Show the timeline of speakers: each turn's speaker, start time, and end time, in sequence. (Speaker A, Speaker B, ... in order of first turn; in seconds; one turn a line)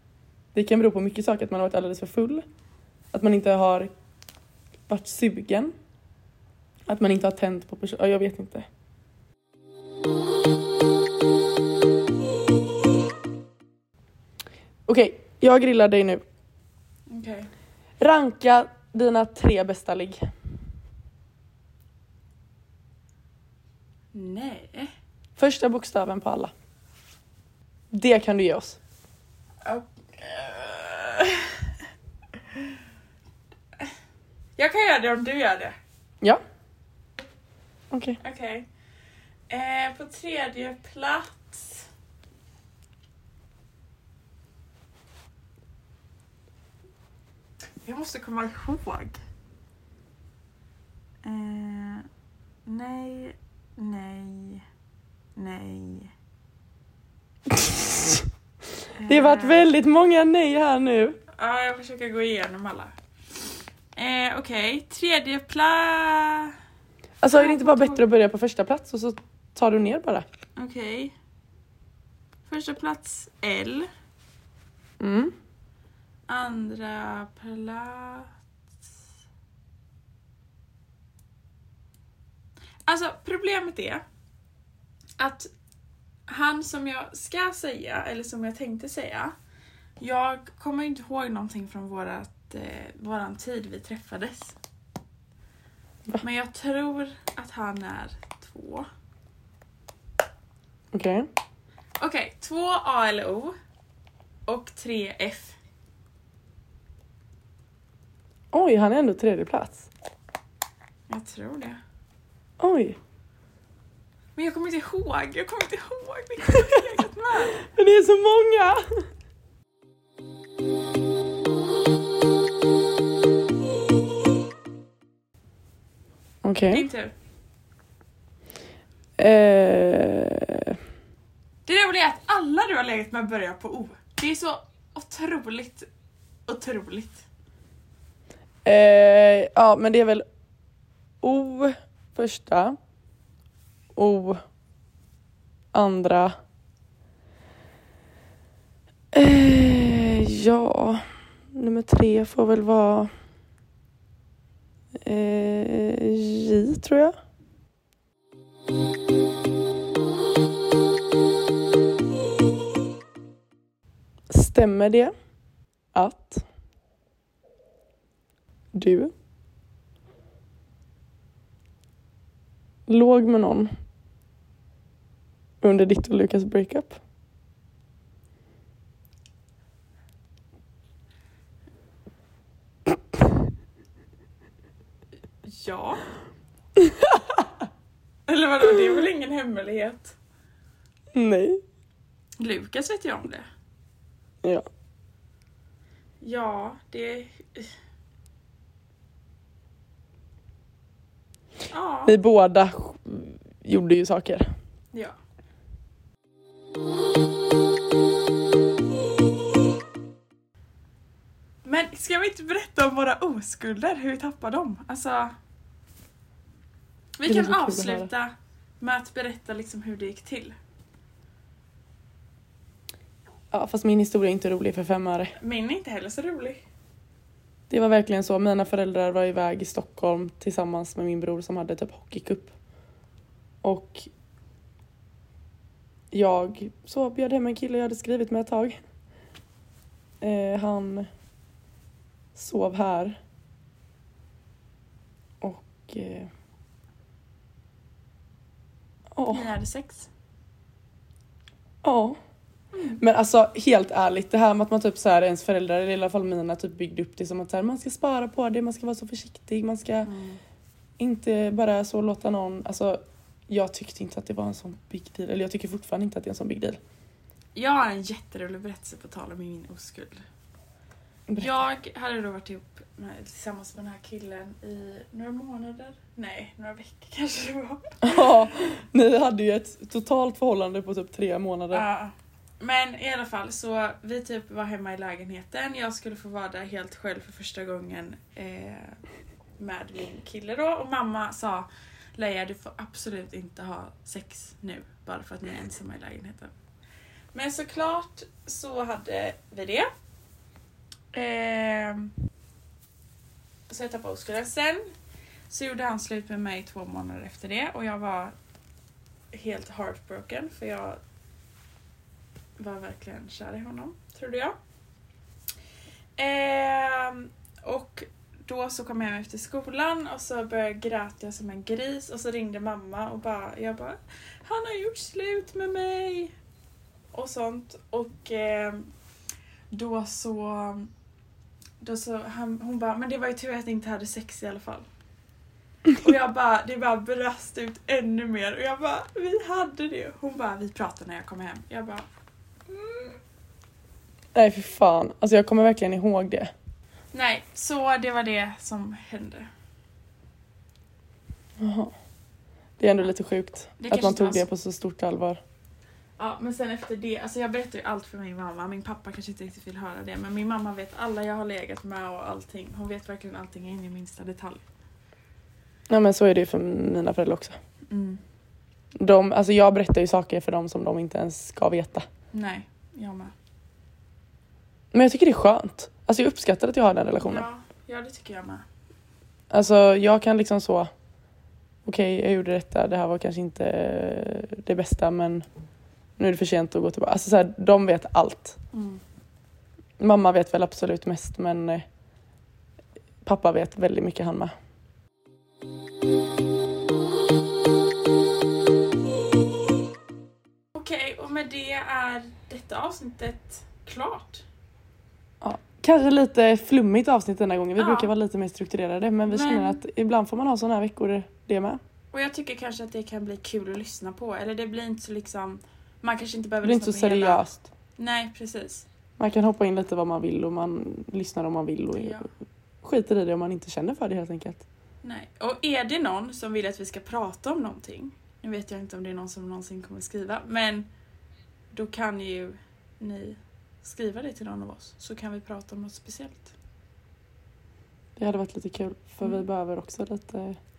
Speaker A: 0.5-2.5
Speaker A: 3.1-3.9
Speaker A: 4.9-5.7
Speaker A: 6.9-8.7
Speaker A: 14.9-16.2
Speaker B: 17.1-17.5
Speaker A: 18.0-20.2
Speaker B: 24.1-24.9
Speaker A: 25.4-26.5
Speaker A: 27.9-28.8
Speaker B: 29.6-31.7
Speaker B: 34.6-35.8
Speaker A: 37.9-38.2
Speaker B: 38.2-38.7
Speaker B: 39.5-41.9
Speaker B: 47.8-49.2
Speaker B: 51.2-52.1
Speaker B: 52.7-54.6
Speaker B: 55.4-56.1
Speaker A: 57.5-58.3
Speaker B: 59.0-59.7
Speaker A: 59.1-61.2
Speaker B: 61.4-62.9
Speaker B: 64.0-66.5
Speaker A: 67.2-70.3
Speaker B: 67.3-68.0
Speaker B: 70.6-71.1
Speaker B: 72.5-73.9
Speaker A: 75.0-75.3
Speaker B: 76.3-78.3
Speaker B: 82.9-84.0
Speaker B: 85.2-85.5
Speaker B: 86.3-89.3
Speaker B: 90.0-94.5
Speaker B: 96.2-98.9
Speaker A: 100.9-101.3
Speaker B: 102.0-103.5
Speaker B: 104.5-105.6
Speaker A: 108.5-109.9
Speaker B: 111.1-111.8
Speaker A: 112.6-113.0
Speaker B: 114.4-117.7
Speaker A: 116.5-116.8
Speaker A: 117.6-118.8
Speaker A: 126.4-126.9
Speaker B: 126.7-127.1
Speaker A: 129.2-130.8
Speaker B: 131.7-135.9
Speaker B: 136.5-137.2
Speaker A: 138.7-140.2
Speaker A: 141.2-142.8
Speaker A: 143.9-144.4
Speaker A: 145.7-146.3
Speaker A: 149.1-153.1
Speaker A: 155.0-157.2
Speaker A: 164.3-165.1
Speaker A: 165.9-166.4
Speaker A: 168.7-169.1
Speaker A: 172.9-173.7
Speaker A: 175.6-177.0
Speaker B: 185.4-186.0
Speaker A: 186.8-187.5
Speaker B: 188.3-190.2
Speaker A: 191.1-191.6
Speaker B: 192.4-193.5
Speaker B: 196.2-197.7
Speaker B: 201.7-202.2
Speaker A: 202.1-204.5
Speaker B: 211.7-215.3
Speaker B: 217.2-220.6
Speaker A: 217.2-218.1
Speaker A: 223.5-225.3
Speaker B: 225.4-226.6
Speaker A: 227.7-232.5
Speaker A: 233.6-234.1
Speaker A: 236.1-238.8
Speaker A: 240.2-241.1
Speaker A: 242.3-243.2
Speaker A: 245.4-246.3
Speaker A: 249.2-249.5
Speaker B: 249.3-250.1
Speaker A: 251.8-252.2
Speaker A: 252.9-260.1
Speaker B: 260.1-260.4
Speaker A: 261.0-266.8
Speaker B: 267.6-270.2
Speaker A: 271.3-271.6
Speaker B: 271.4-278.5
Speaker A: 278.0-281.9
Speaker B: 281.7-289.0
Speaker B: 289.6-296.5
Speaker B: 297.3-299.9
Speaker B: 301.1-302.1
Speaker B: 303.7-304.9
Speaker B: 305.5-308.3
Speaker B: 309.3-311.0
Speaker B: 312.6-314.6
Speaker B: 316.2-326.3
Speaker B: 327.1-328.9
Speaker B: 329.7-330.9
Speaker B: 331.8-334.9
Speaker B: 336.0-342.1
Speaker B: 342.7-343.2
Speaker A: 344.4-346.5
Speaker B: 347.1-349.5
Speaker A: 351.6-351.9
Speaker A: 352.8-355.4
Speaker B: 353.8-354.5
Speaker B: 356.2-364.6
Speaker A: 365.9-367.6
Speaker B: 367.9-368.2
Speaker A: 369.0-372.1
Speaker B: 372.3-373.3
Speaker A: 374.9-377.5
Speaker B: 377.2-378.6
Speaker A: 379.5-380.9
Speaker A: 381.9-385.4
Speaker A: 386.2-388.6
Speaker B: 388.7-389.0
Speaker A: 390.0-391.9
Speaker A: 393.2-394.5
Speaker B: 400.7-404.4
Speaker A: 405.4-411.8
Speaker B: 407.8-408.1
Speaker B: 409.3-409.8
Speaker B: 412.1-417.4
Speaker A: 416.6-417.7
Speaker B: 418.0-418.9
Speaker A: 419.2-422.3
Speaker B: 421.9-422.3
Speaker A: 422.8-424.6
Speaker B: 425.0-430.9
Speaker B: 431.7-436.5
Speaker A: 438.2-440.6